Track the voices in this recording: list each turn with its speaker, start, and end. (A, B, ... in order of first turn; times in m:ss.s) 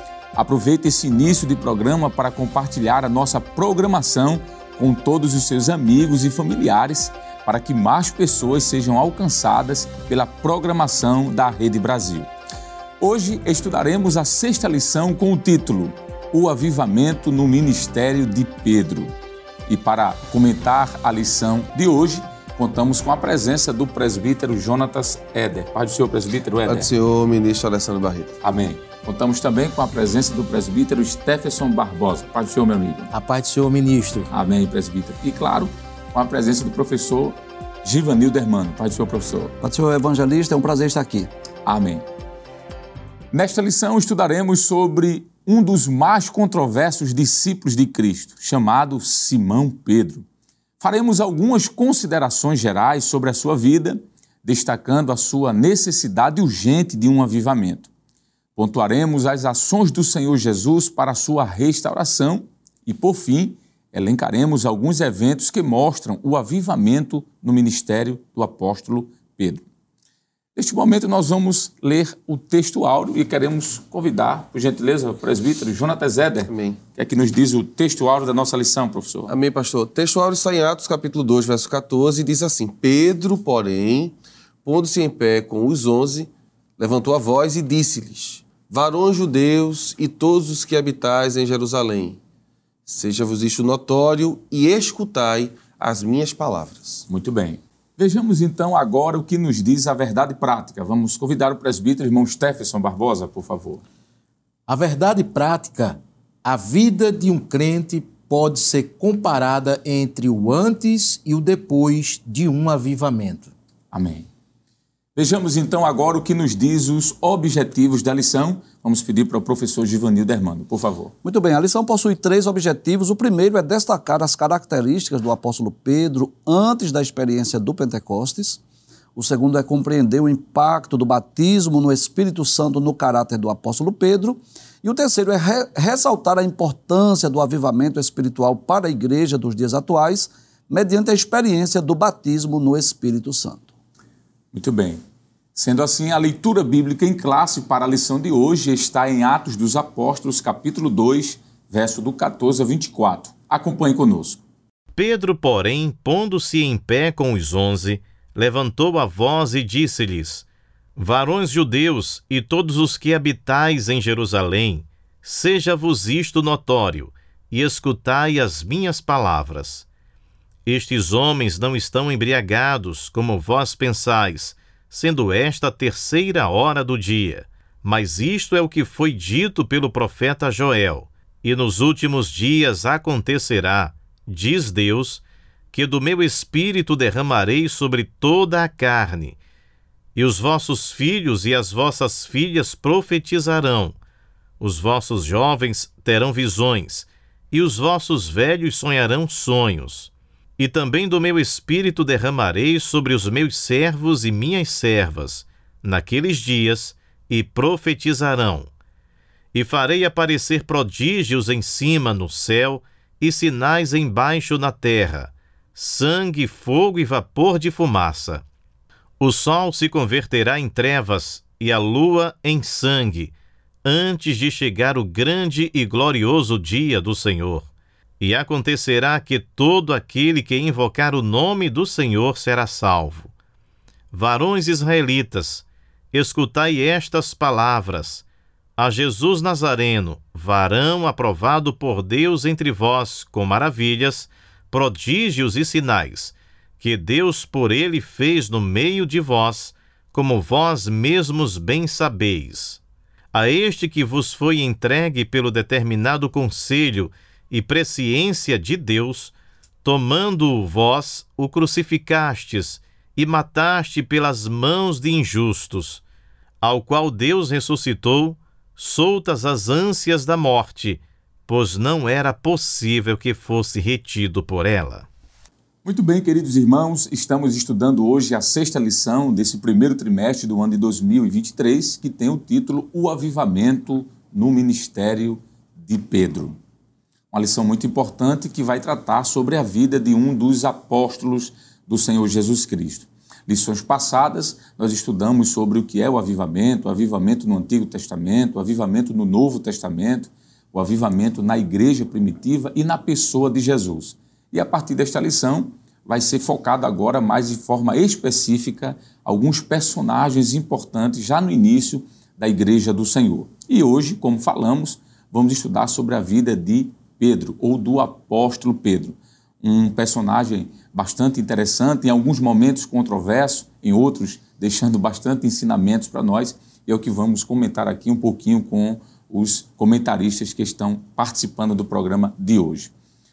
0:00.3-0:12.3 A
0:13.0-0:19.1 A
0:19.7-0:26.9 A
0:26.7-0:28.4 B
0:28.4-0:33.1 A
0:33.1-0:34.3 C
0:34.3-0:39.5 A
0:39.6-0:41.3 D
0:41.6-0:42.0 A
0:43.3-0:50.2 A
0:50.8-0:57.9 A
0:58.6-1:09.6 A
1:10.6-1:19.3 A
1:16.5-1:16.8 B
1:19.3-1:32.2 B
1:32.9-1:37.0 B
1:37.1-1:43.8 A
1:44.7-1:53.5 C
1:53.9-1:54.3 A
1:55.2-2:01.1 A
2:01.2-2:08.6 D
2:09.2-2:23.7 D
2:24.5-2:25.0 A
2:25.5-2:34.4 A
2:35.0-2:40.4 E
2:41.0-2:49.9 E
2:50.6-3:09.4 E
3:10.1-3:14.0 E
3:14.6-3:28.7 E
3:29.5-3:38.4 E
3:39.2-3:43.3 E
3:43.8-3:47.7 E
3:48.2-3:53.3 E
3:54.1-3:58.2 E
3:58.8-4:12.8 E
4:13.3-4:26.0 E
4:26.6-4:35.1 E
4:35.8-4:46.6 A
4:47.3-5:32.9 A